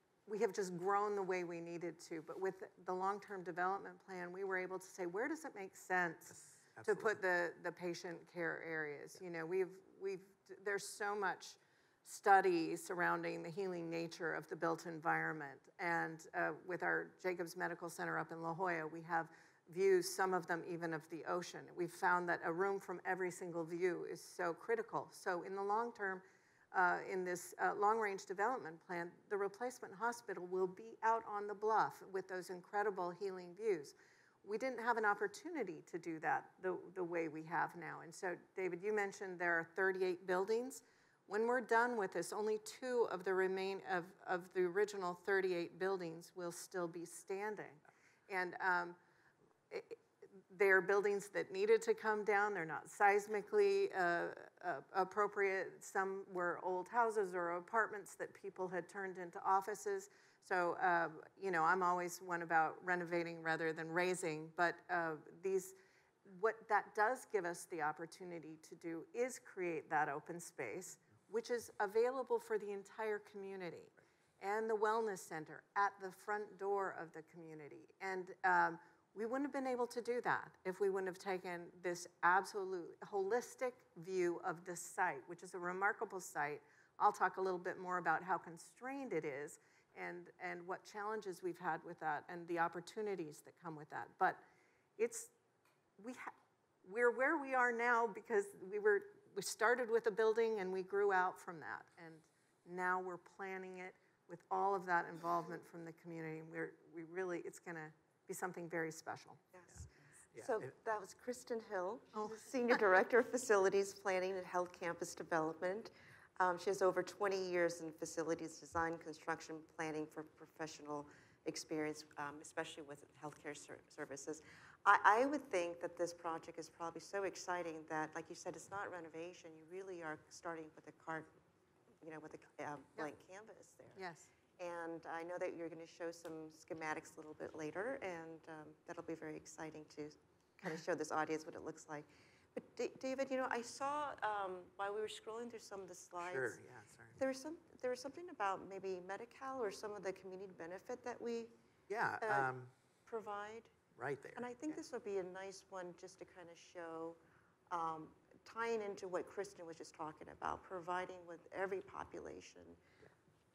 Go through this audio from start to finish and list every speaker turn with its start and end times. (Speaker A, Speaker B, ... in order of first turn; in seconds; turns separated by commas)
Speaker A: 0.3-49.0, Speaker B: 6.3-7.2, Speaker A: 49.7-94.4, Speaker A: 95.0-95.3, Speaker A: 96.0-96.3, Speaker A: 96.8-109.4, Speaker C: 109.5-131.3, Speaker B: 110.3-110.7, Speaker C: 132.0-134.0, Speaker A: 133.9-134.3, Speaker C: 134.6-146.6, Speaker B: 146.2-147.2, Speaker C: 147.2-151.5, Speaker B: 151.9-152.7, Speaker C: 153.1-153.7, Speaker B: 153.9-154.8, Speaker C: 154.3-157.2, Speaker C: 157.7-162.8